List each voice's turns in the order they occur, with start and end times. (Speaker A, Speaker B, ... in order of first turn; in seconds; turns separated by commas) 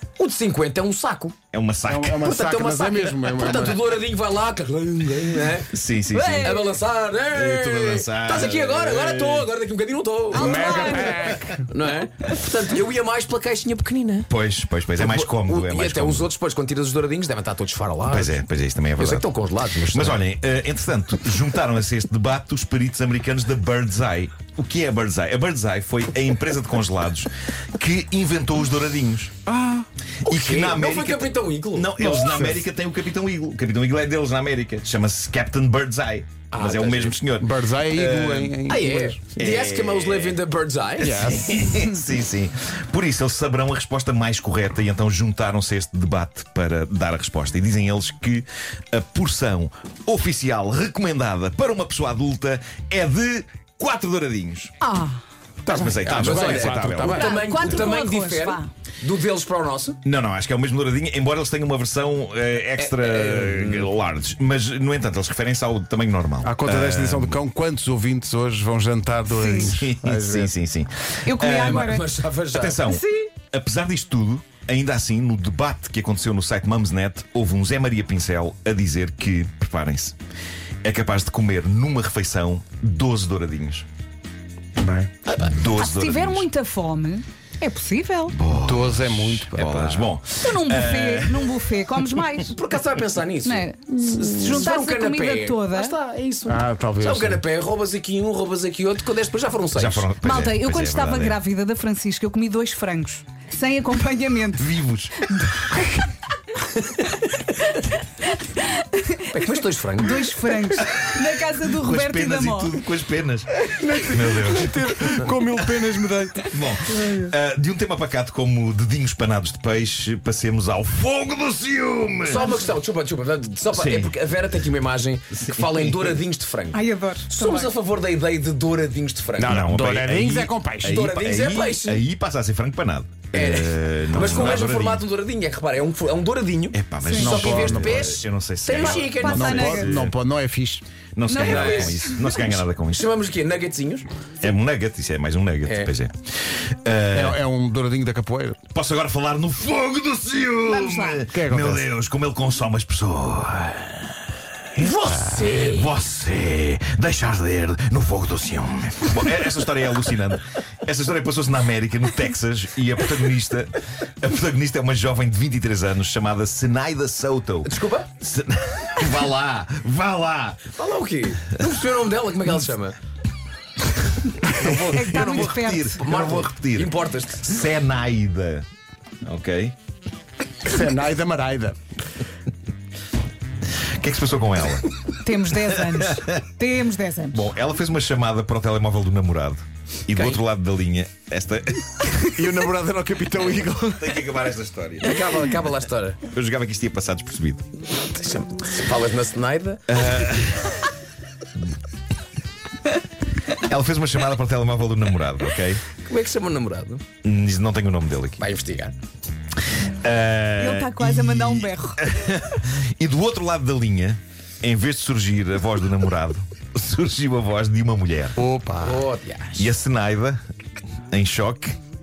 Speaker A: 0.2-1.4, Speaker B: 1.5-2.3, Speaker C: 1.9-3.8, Speaker A: 2.1-5.7, Speaker B: 5.7-6.7, Speaker D: 6.1-6.8, Speaker A: 6.4-14.3, Speaker B: 7.3-9.5, Speaker D: 10.3-11.4, Speaker C: 10.3-11.7, Speaker B: 14.3-16.3, Speaker A: 14.9-18.4, Speaker B: 18.1-19.3, Speaker A: 19.0-20.2, Speaker B: 19.9-29.4, Speaker C: 29.5-29.9, Speaker A: 30.2-32.4, Speaker B: 30.3-38.7, Speaker C: 32.2-32.6, Speaker A: 36.5-37.2, Speaker C: 37.4-39.2, Speaker A: 38.7-41.4, Speaker B: 39.4-40.4, Speaker C: 41.0-41.8, Speaker B: 41.0-54.8, Speaker D: 54.8-55.2, Speaker C: 55.6-57.5, Speaker B: 55.7-57.8, Speaker A: 56.0-60.0, Speaker D: 57.0-58.7, Speaker B: 60.0-67.4, Speaker A: 62.8-63.9, Speaker C: 66.4-70.5, Speaker D: 69.3-69.7, Speaker B: 69.6-72.0, Speaker D: 71.2-72.1, Speaker A: 71.6-72.8, Speaker B: 72.5-80.2, Speaker D: 72.8-73.3, Speaker B: 80.8-83.9, Speaker C: 84.8-85.1, Speaker B: 85.4-86.5, Speaker D: 85.8-88.4, Speaker B: 88.3-91.5, Speaker C: 88.6-90.1, Speaker D: 90.4-92.5, Speaker A: 92.2-100.1, Speaker D: 93.5-96.0, Speaker C: 96.5-97.4, Speaker B: 99.8-101.4, Speaker D: 100.2-104.7, Speaker B: 104.6-105.3, Speaker D: 108.3-109.3, Speaker A: 109.3-110.3, Speaker D: 110.0-112.8, Speaker B: 110.8-115.7, Speaker C: 113.7-117.2, Speaker B: 116.4-122.6, Speaker A: 122.2-129.6, Speaker B: 123.7-124.2, Speaker B: 125.3-126.2, Speaker D: 126.7-127.7, Speaker C: 129.4-131.1, Speaker B: 129.4-135.1, Speaker A: 130.8-132.0, Speaker A: 133.3-139.8, Speaker B: 136.7-140.2, Speaker D: 137.0-137.4, Speaker C: 137.2-138.2, Speaker D: 138.7-139.9, Speaker C: 139.3-140.8, Speaker B: 141.2-143.1, Speaker D: 141.3-142.4, Speaker A: 141.4-144.1, Speaker B: 144.4-147.4, Speaker A: 145.7-145.9, Speaker C: 147.1-148.6, Speaker B: 148.7-154.9, Speaker D: 150.7-151.2, Speaker C: 151.3-151.9, Speaker A: 154.8-155.9, Speaker C: 155.1-155.4, Speaker B: 155.5-170.7, Speaker A: 167.7-168.1, Speaker A: 170.7-173.0, Speaker B: 174.5-178.7, Speaker D: 174.6-176.0, Speaker A: 175.2-177.5, Speaker B: 179.2-179.8, Speaker C: 180.6-181.8, Speaker B: 184.0-184.9, Speaker D: 185.2-187.4, Speaker B: 185.7-186.4, Speaker B: 187.3-192.3, Speaker C: 192.3-194.2, Speaker B: 194.0-195.3, Speaker A: 195.0-196.2, Speaker B: 196.2-197.6, Speaker A: 198.0-199.9, Speaker B: 199.9-200.8, Speaker B: 203.6-205.8, Speaker A: 206.0-207.0, Speaker B: 207.2-208.4, Speaker A: 208.4-209.0, Speaker B: 209.9-218.4, Speaker D: 210.6-212.1, Speaker C: 218.4-219.0, Speaker A: 218.8-219.7, Speaker B: 219.6-220.4, Speaker B: 221.1-221.8